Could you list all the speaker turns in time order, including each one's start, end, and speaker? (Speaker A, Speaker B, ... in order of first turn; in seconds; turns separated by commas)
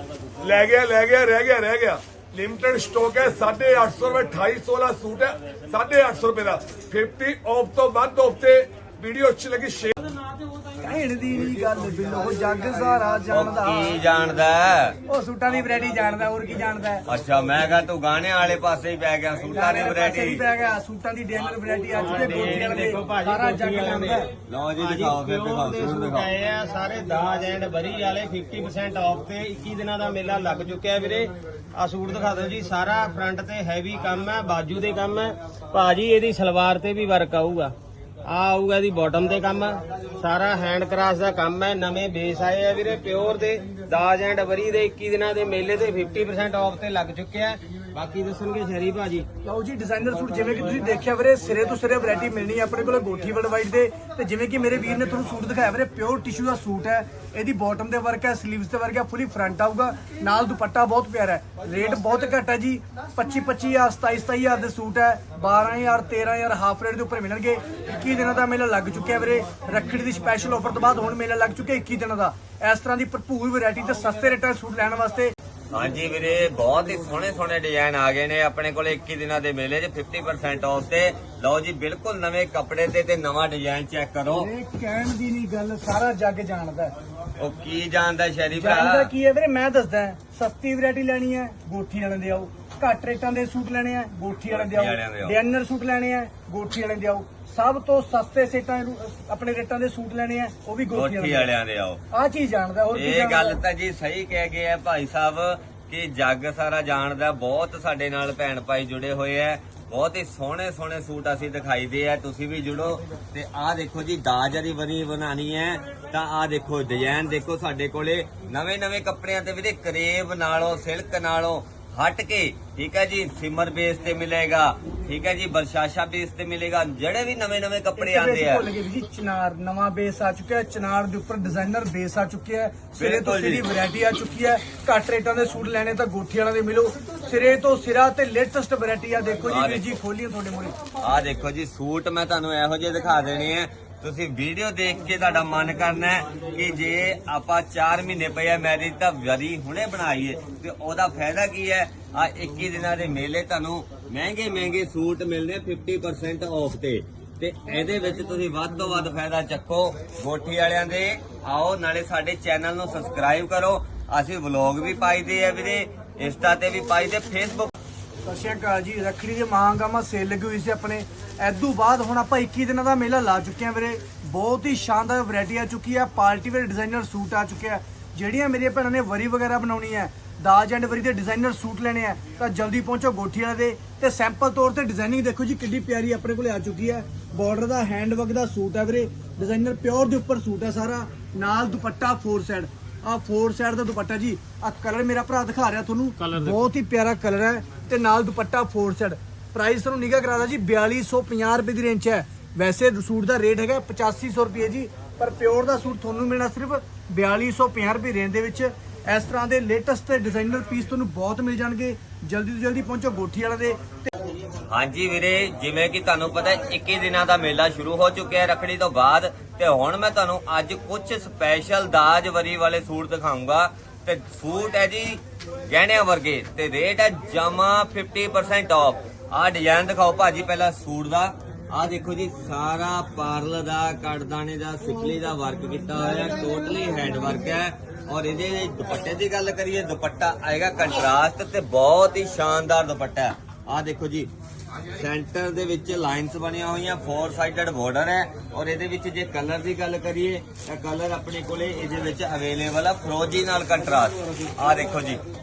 Speaker A: 0.4-9.9, Speaker B: 10.8-13.9, Speaker C: 13.3-15.0, Speaker B: 15.1-17.0, Speaker C: 17.1-20.4, Speaker B: 19.5-24.3, Speaker D: 21.9-49.3, Speaker C: 24.5-26.3, Speaker B: 49.4-75.3, Speaker C: 75.7-84.5, Speaker B: 84.4-86.9, Speaker C: 87.4-89.1, Speaker B: 88.5-101.5, Speaker C: 94.5-95.3, Speaker C: 100.9-102.0, Speaker B: 102.1-103.6, Speaker C: 102.9-128.7, Speaker B: 128.0-140.8, Speaker C: 132.9-133.7, Speaker C: 139.5-140.0, Speaker C: 141.0-167.7, Speaker B: 168.2-214.1, Speaker D: 196.2-196.7, Speaker C: 214.7-244.3, Speaker C: 244.9-255.2